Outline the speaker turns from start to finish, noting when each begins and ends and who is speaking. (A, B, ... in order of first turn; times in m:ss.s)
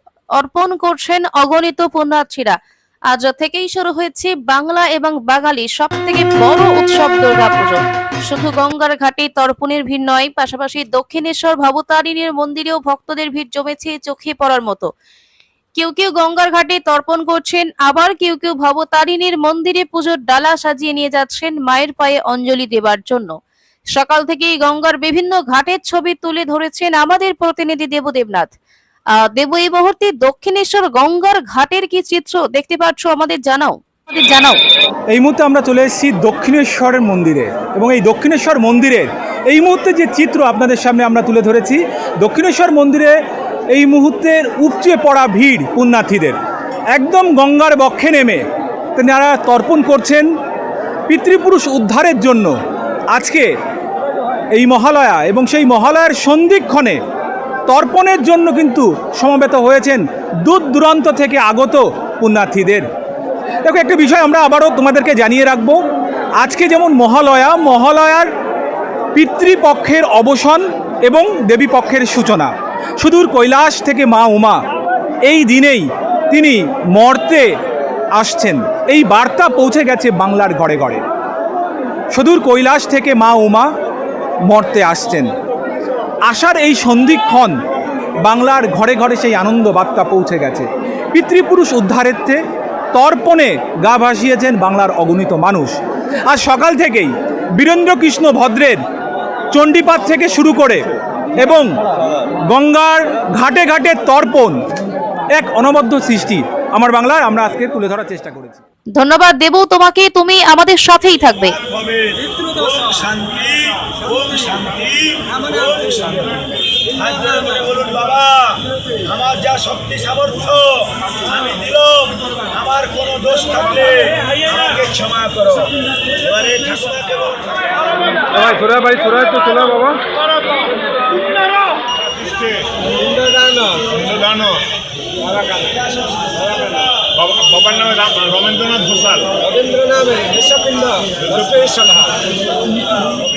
0:00.4-0:02.6 A
0:03.1-0:14.9 A
0:15.8-0:23.3 A
0:23.9-0:28.5 A
0:29.3-0:34.6 A
0:35.1-0:43.1 B
0:43.7-0:46.4 B
0:46.9-0:48.4 B
0:49.0-0:50.3 B
0:51.1-0:52.5 B
0:53.1-0:53.5 B
0:54.5-0:57.0 B
0:57.7-1:02.8 B
1:03.6-1:05.8 B
1:06.4-1:08.3 B
1:09.1-1:14.6 B
1:15.3-1:17.5 B
1:18.2-1:21.0 B
1:22.1-1:23.7 B
1:24.5-1:25.3 B
1:26.3-1:27.6 B
1:28.2-1:32.4 B
1:32.9-1:35.8 B
1:36.3-1:38.8 B
1:39.5-1:40.8 B
1:41.4-1:41.7 B
1:42.5-1:44.6 B
1:45.4-1:48.6 B
1:49.0-1:51.6 A
1:52.6-1:56.2 C
1:57.0-1:58.3 C
1:59.1-2:00.8 C
2:01.4-2:05.7 C
2:06.3-2:07.3 C
2:08.3-2:10.0 B
2:13.7-2:14.0 C
2:17.5-2:19.0 C
2:19.6-2:22.0 C